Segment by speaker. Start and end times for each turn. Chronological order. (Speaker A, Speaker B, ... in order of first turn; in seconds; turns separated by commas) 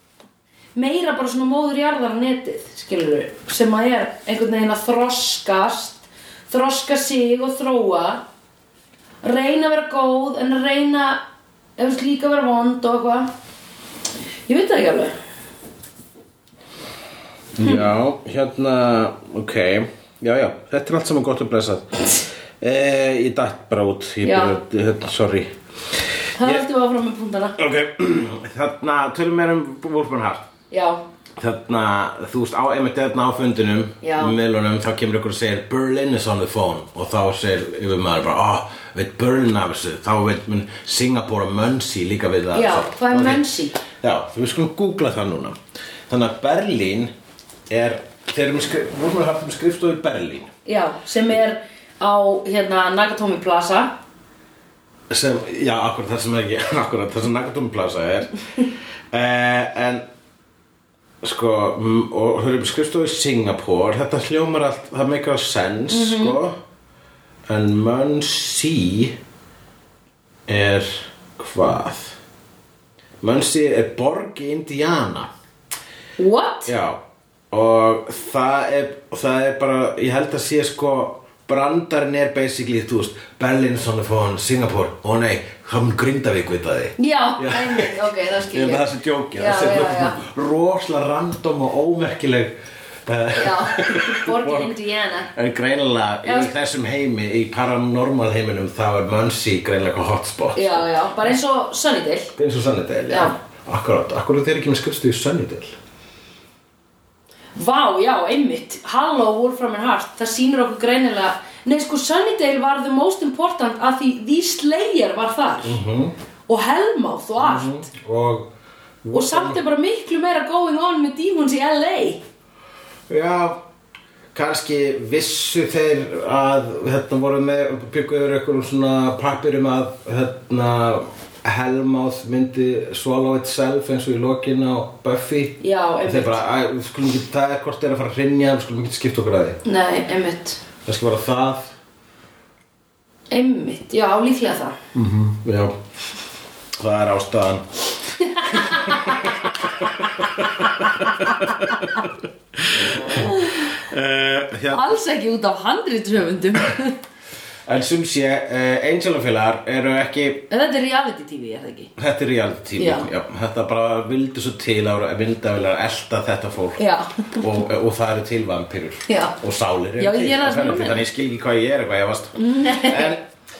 Speaker A: 0.8-8.2, Speaker A: 9.2-11.2, Speaker A: 11.8-13.3, Speaker A: 14.5-15.1, Speaker B: 17.6-25.5, Speaker A: 17.6-17.9, Speaker A: 24.2-24.6, Speaker A: 26.4-27.6, Speaker B: 26.4-26.6, Speaker B: 27.6-30.4, Speaker A: 30.7-31.0, Speaker B: 31.4-43.4, Speaker A: 34.0-34.4, Speaker A: 42.5-43.8, Speaker B: 44.0-45.6, Speaker B: 46.1-47.1, Speaker B: 47.7-50.5, Speaker A: 50.7-53.9, Speaker B: 55.1-60.0, Speaker B: 61.2-66.5, Speaker A: 65.9-66.4, Speaker B: 67.5-69.2, Speaker B: 70.5-72.2, Speaker B: 73.2-75.3, Speaker A: 76.2-76.7, Speaker B: 76.7-77.0, Speaker B: 77.5-88.0, Speaker A: 87.0-90.2, Speaker B: 88.5-92.5, Speaker B: 93.1-94.7, Speaker A: 93.3-95.3, Speaker B: 95.3-100.9, Speaker A: 96.2-96.5, Speaker A: 100.5-102.3, Speaker B: 102.4-105.8, Speaker A: 103.1-103.3, Speaker A: 107.5-115.8, Speaker B: 115.6-116.1, Speaker A: 116.5-117.8, Speaker B: 117.4-118.5, Speaker B: 119.0-119.6, Speaker A: 119.1-122.2, Speaker B: 123.1-123.6, Speaker B: 124.3-139.6, Speaker A: 135.6-136.4, Speaker A: 139.6-140.6, Speaker B: 140.9-141.7, Speaker A: 143.3-144.8, Speaker B: 144.9-145.8, Speaker B: 146.8-147.7, Speaker A: 148.2-149.2, Speaker B: 148.4-154.9, Speaker A: 150.2-152.0, Speaker A: 153.0-153.8, Speaker A: 154.7-157.0, Speaker B: 157.7-160.5, Speaker A: 160.5-161.9, Speaker B: 162.0-166.8, Speaker A: 162.8-163.1, Speaker A: 166.8-167.4, Speaker B: 167.4-173.2, Speaker A: 169.1-169.4, Speaker A: 170.0-171.0, Speaker A: 172.4-173.2